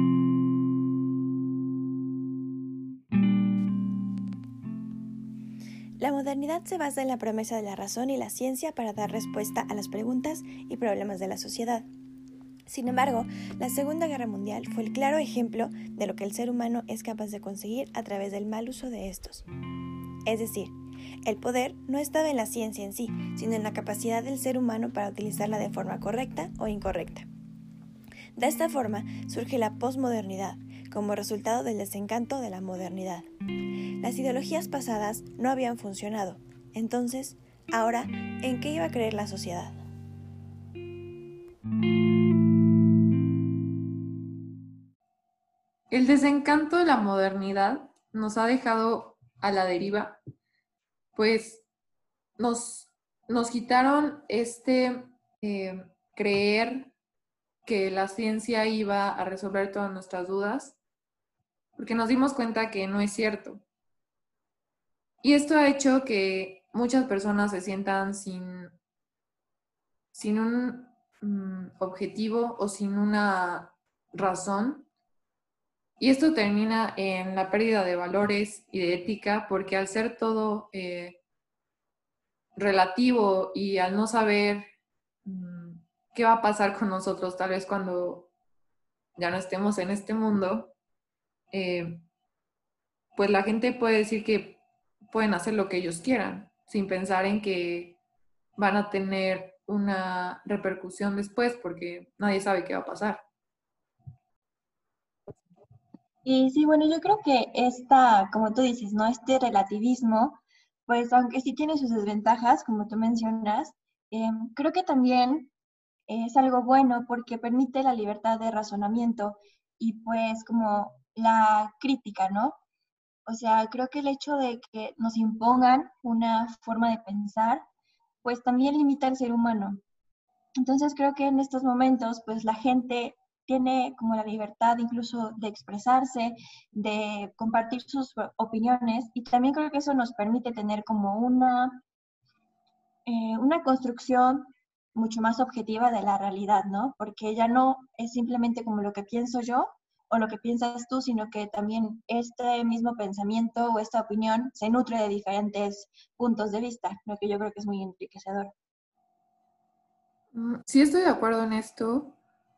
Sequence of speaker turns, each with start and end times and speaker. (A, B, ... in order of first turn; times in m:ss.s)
0:06.0-0:11.8 A
0:09.3-0:10.1 B
0:12.7-0:19.4 A
0:14.3-0:15.4 B
0:20.2-0:20.7 A
0:21.3-0:27.3 A
0:21.6-0:22.2 B
0:26.1-0:27.0 B
0:28.4-0:33.3 A
0:29.2-0:29.7 B
0:31.0-0:31.3 B
0:34.0-0:39.8 A
0:35.1-0:35.7 B
0:37.2-0:37.8 B
0:38.9-0:39.3 B
0:45.9-0:50.2 C
0:51.1-0:51.6 C
0:52.4-0:56.9 C
0:57.6-1:00.8 C
1:01.8-1:03.6 C
1:05.2-1:08.7 C
1:10.1-1:14.9 C
1:16.0-1:21.2 C
1:22.6-1:24.6 C
1:25.2-1:28.3 C
1:29.2-1:30.7 C
1:31.5-1:32.0 C
1:33.2-1:38.0 C
1:38.6-1:43.2 C
1:46.2-1:55.5 B
1:56.1-2:02.6 B
2:03.2-2:07.6 B
2:08.2-2:09.8 B
2:10.6-2:21.8 B
2:23.0-2:38.5 B
2:40.3-2:42.2 C